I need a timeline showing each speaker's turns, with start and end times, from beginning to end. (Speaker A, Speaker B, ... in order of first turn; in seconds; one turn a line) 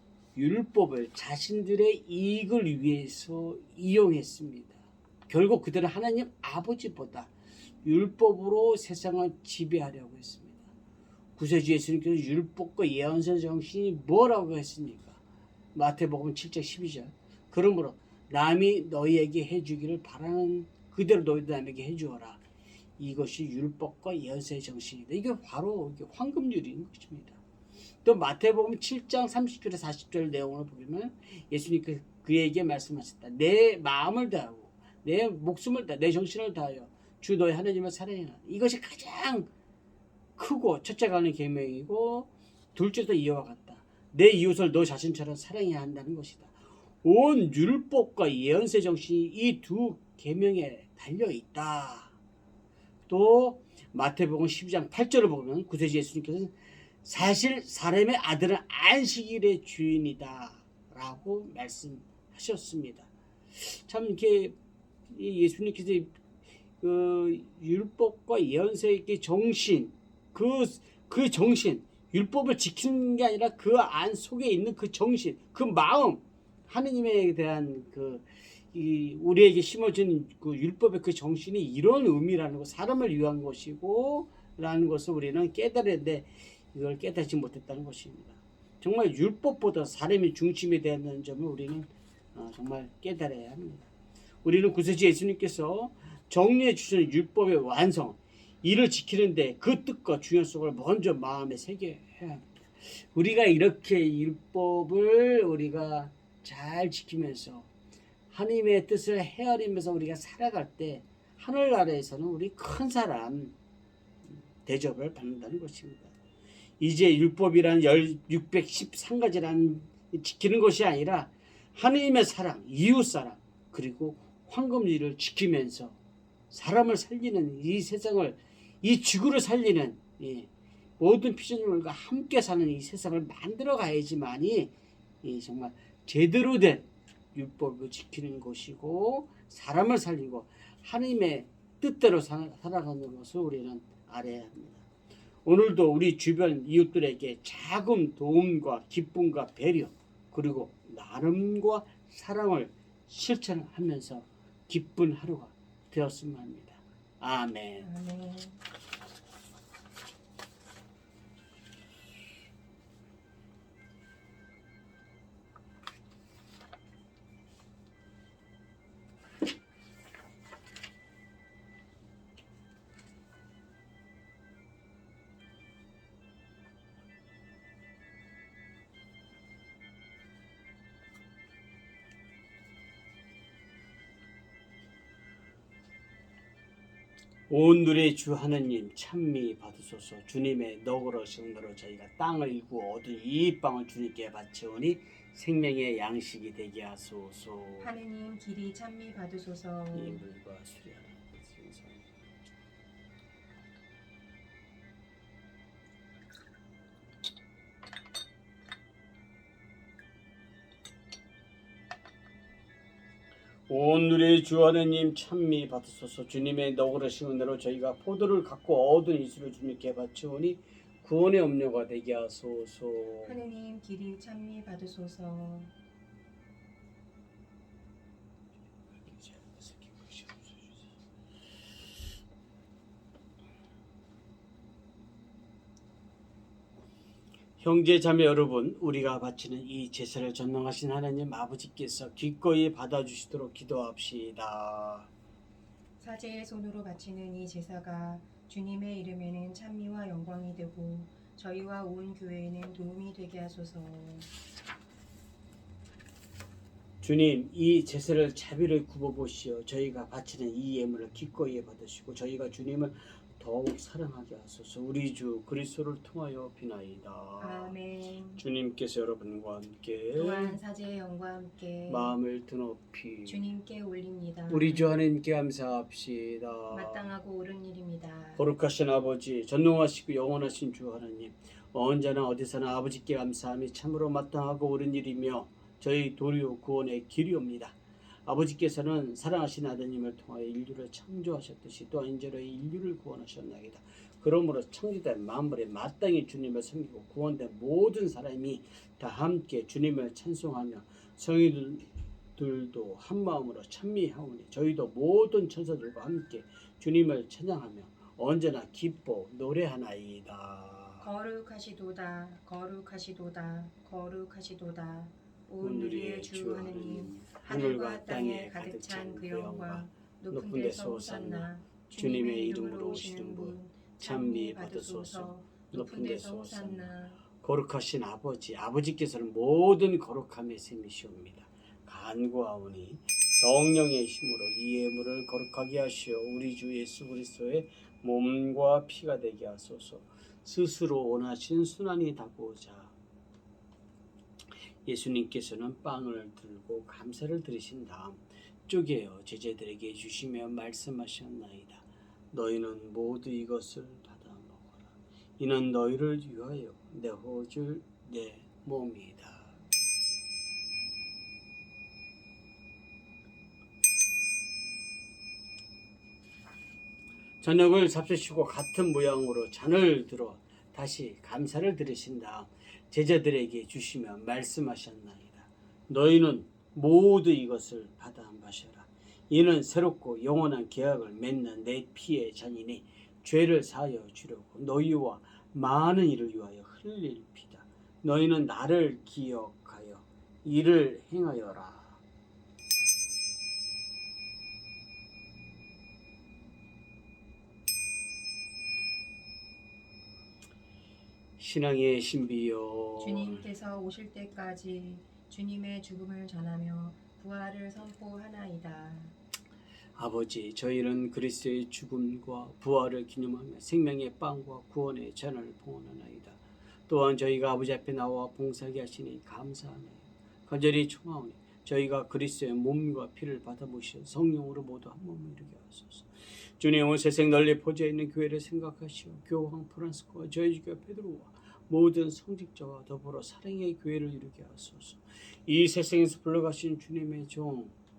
Speaker A: 0.3-7.3
Speaker A: 7.8-10.7
Speaker A: 11.4-15.2
Speaker A: 15.7-22.4
Speaker A: 23.0-27.4
Speaker A: 28.0-39.5
Speaker A: 40.4-52.1
Speaker A: 53.1-64.5
Speaker A: 65.1-66.2
Speaker A: 66.8-93.9
Speaker A: 94.4-107.7
Speaker A: 108.3-113.5
Speaker A: 114.2-116.1
Speaker A: 116.8-126.0
Speaker A: 126.5-144.8
Speaker A: 145.4-157.9
Speaker B: 157.8-158.6
Speaker A: 187.5-197.9
Speaker B: 197.8-200.2
Speaker A: 199.9-202.1
Speaker A: 213.7-223.4
Speaker B: 223.2-225.7
Speaker A: 228.9-230.6
Speaker A: 237.6-245.1
Speaker B: 246.0-254.3
Speaker A: 257.0-267.7
Speaker B: 267.4-268.4
Speaker A: 268.4-270.6
Speaker B: 270.1-272.1
Speaker A: 271.9-273.4
Speaker B: 273.2-274.9
Speaker A: 274.5-277.1
Speaker B: 276.7-278.5
Speaker A: 278.4-311.1
Speaker B: 311.0-327.2
Speaker A: 315.6-342.9
Speaker A: 344.9-359.6
Speaker A: 367.4-392.0
Speaker A: 401.4-403.4
Speaker B: 403.0-409.1
Speaker A: 409.9-437.7